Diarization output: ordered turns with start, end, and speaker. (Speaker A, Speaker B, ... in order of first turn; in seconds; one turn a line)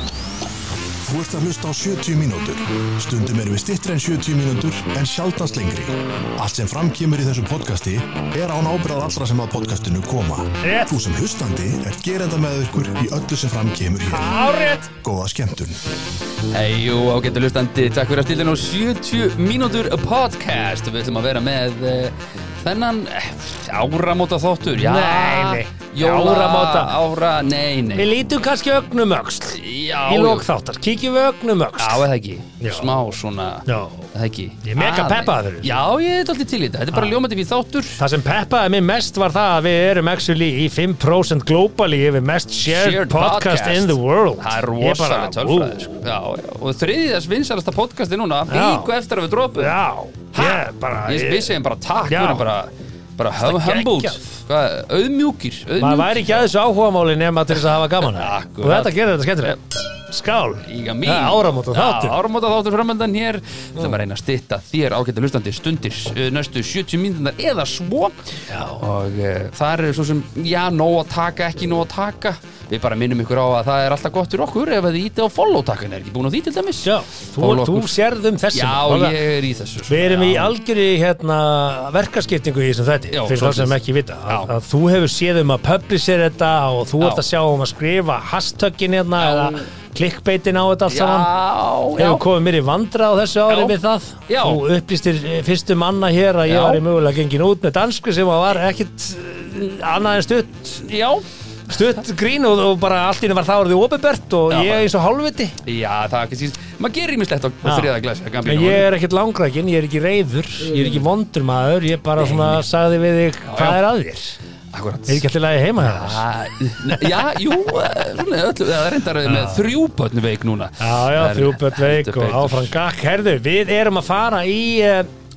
Speaker A: 1.0-14.3
Speaker B: 10.6-10.9
Speaker B: 14.1-14.9
Speaker A: 15.0-15.8
Speaker C: 16.5-28.1
Speaker B: 24.8-26.9
Speaker B: 27.9-32.1
Speaker C: 29.5-30.4
Speaker C: 31.8-38.0
Speaker B: 32.6-32.9
Speaker B: 33.6-34.1
Speaker B: 34.6-35.8
Speaker B: 38.0-45.9
Speaker C: 42.6-49.7
Speaker B: 48.5-48.9
Speaker B: 49.6-51.5
Speaker C: 50.3-56.4
Speaker B: 52.1-52.4
Speaker B: 53.3-54.2
Speaker B: 55.8-62.2
Speaker C: 58.0-59.5
Speaker C: 60.6-78.0
Speaker B: 68.5-68.8
Speaker B: 76.8-79.2
Speaker C: 78.5-80.5
Speaker B: 79.9-91.3
Speaker C: 83.1-83.7
Speaker C: 89.2-89.7
Speaker C: 90.9-92.2
Speaker B: 91.9-100.9
Speaker C: 93.5-94.6
Speaker C: 96.5-96.8
Speaker C: 100.8-101.2
Speaker B: 101.7-105.5
Speaker C: 104.5-104.9
Speaker C: 105.6-108.9
Speaker B: 107.6-107.9
Speaker B: 108.4-114.4
Speaker C: 110.7-111.0
Speaker C: 112.2-112.6
Speaker C: 113.5-113.8
Speaker C: 114.7-115.2
Speaker B: 115.1-116.2
Speaker C: 115.8-122.7
Speaker B: 116.8-117.2
Speaker B: 119.2-119.7
Speaker B: 120.8-125.1